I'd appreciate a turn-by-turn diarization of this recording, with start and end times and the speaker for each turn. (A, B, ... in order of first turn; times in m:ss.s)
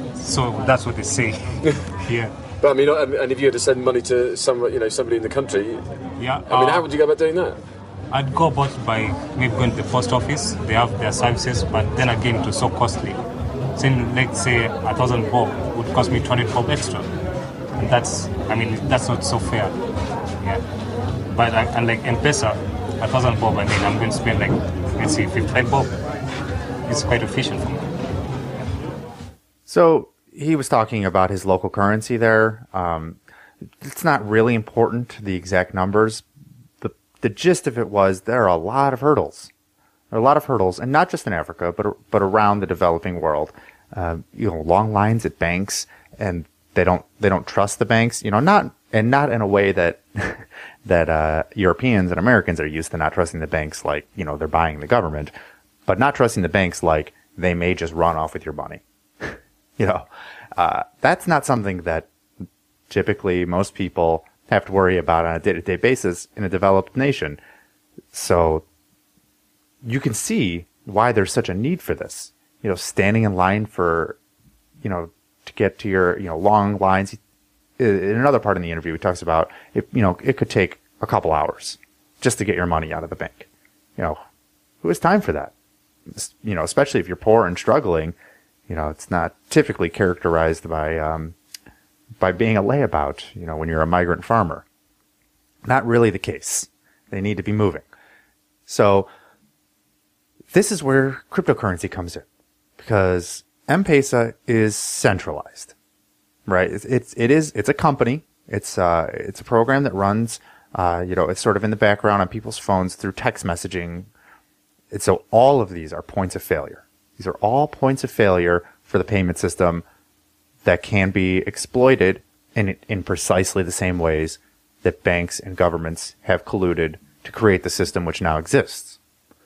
0:00.2-0:02.3 A
0:02.6-0:05.8 B
0:06.2-0:06.9 A
0:06.5-0:07.6 B
0:08.1-0:13.2 A
0:13.7-0:17.1 A
0:17.8-0:19.8 A
0:21.3-0:25.9 A
0:26.8-0:27.9 A
0:29.7-0:33.2 C
0:33.8-0:36.2 C
0:36.8-0:39.5 C
0:40.1-0:55.3 C
0:55.9-1:02.1 C
1:02.9-1:07.4 C
1:08.1-1:08.6 C
1:09.8-1:14.2 C
1:14.8-1:17.2 C
1:17.8-1:24.2 C
1:24.8-1:25.5 C
1:26.1-1:28.1 C
1:28.7-1:31.3 C
1:32.2-1:34.6 C
1:35.6-1:37.8 C
1:38.7-1:39.1 C
1:40.5-1:42.2 C
1:42.8-1:45.7 C
1:46.5-1:54.1 C
1:54.9-1:59.8 C
2:00.6-2:09.0 C